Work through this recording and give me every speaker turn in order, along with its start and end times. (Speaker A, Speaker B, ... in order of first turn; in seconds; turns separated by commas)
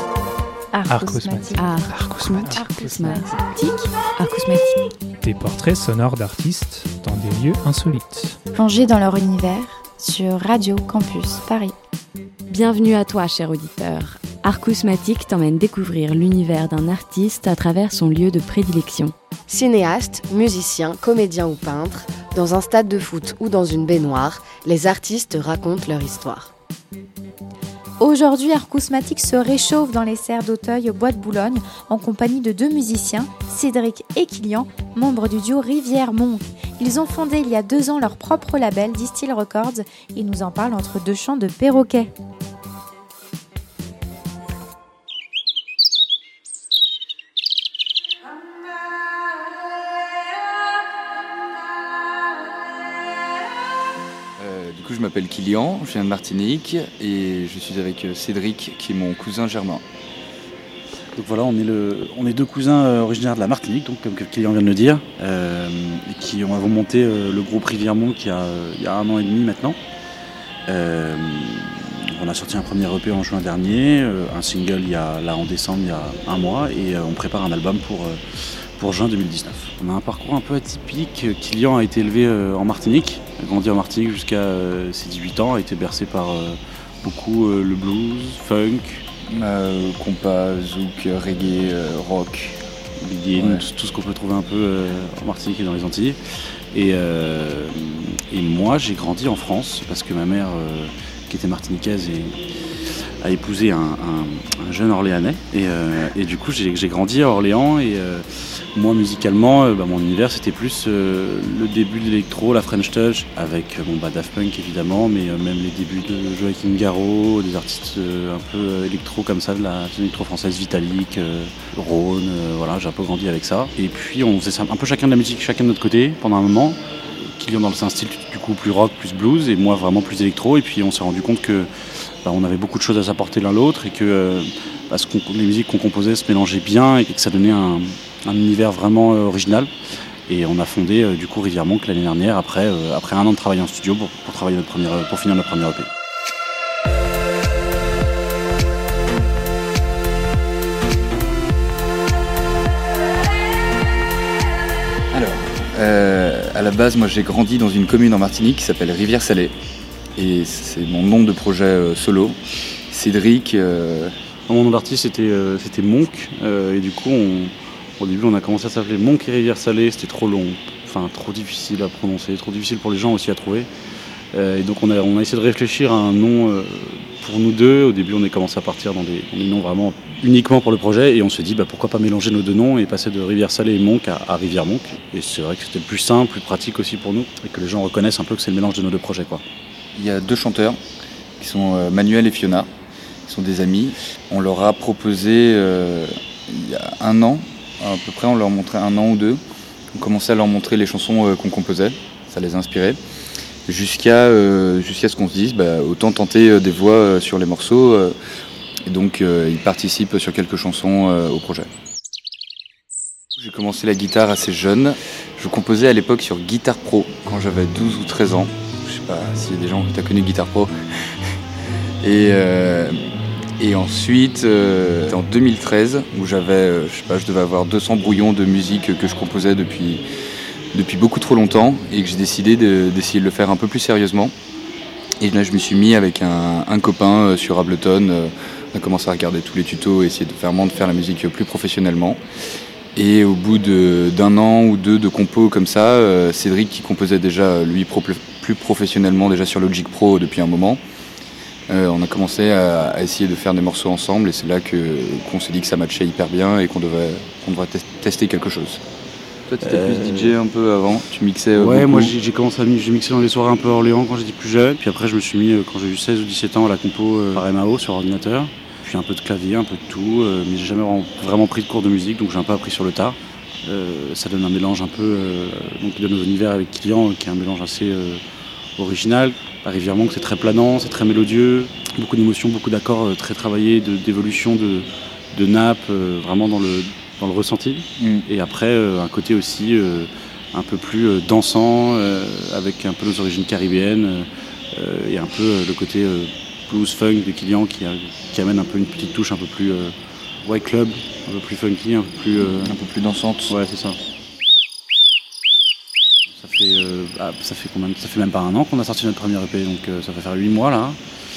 Speaker A: 0.7-1.8, Speaker B: 0.9-3.2, Speaker C: 1.6-4.8, Speaker A: 2.5-3.5, Speaker B: 5.2-8.4, Speaker A: 8.5-11.7, Speaker C: 12.5-19.1, Speaker D: 19.5-26.5, Speaker A: 28.0-42.1, Speaker E: 54.4-59.8, Speaker F: 61.1-69.8, Speaker F: 70.7-78.2, Speaker F: 78.8-89.0, Speaker E: 89.3-92.6, Speaker F: 93.0-96.2, Speaker E: 93.3-93.6, Speaker F: 96.7-102.4, Speaker F: 103.2-131.7, Speaker F: 132.2-139.7, Speaker F: 140.3-145.9, Speaker E: 155.1-159.5, Speaker E: 160.2-162.4, Speaker E: 162.9-164.1, Speaker F: 164.5-173.7, Speaker F: 174.3-189.4, Speaker E: 189.9-190.8, Speaker E: 191.4-192.7, Speaker E: 193.2-199.4, Speaker E: 199.9-203.0, Speaker E: 203.7-208.2, Speaker E: 208.9-211.7, Speaker E: 213.4-221.1, Speaker E: 222.0-223.0, Speaker E: 223.6-230.0, Speaker E: 230.7-234.3, Speaker E: 235.2-242.2, Speaker E: 242.9-250.8, Speaker E: 251.7-258.8, Speaker E: 259.5-262.1, Speaker F: 259.6-260.4, Speaker F: 261.5-278.2, Speaker F: 278.8-302.8, Speaker E: 288.0-288.3, Speaker E: 302.5-303.6, Speaker F: 303.5-304.0, Speaker F: 306.4-311.0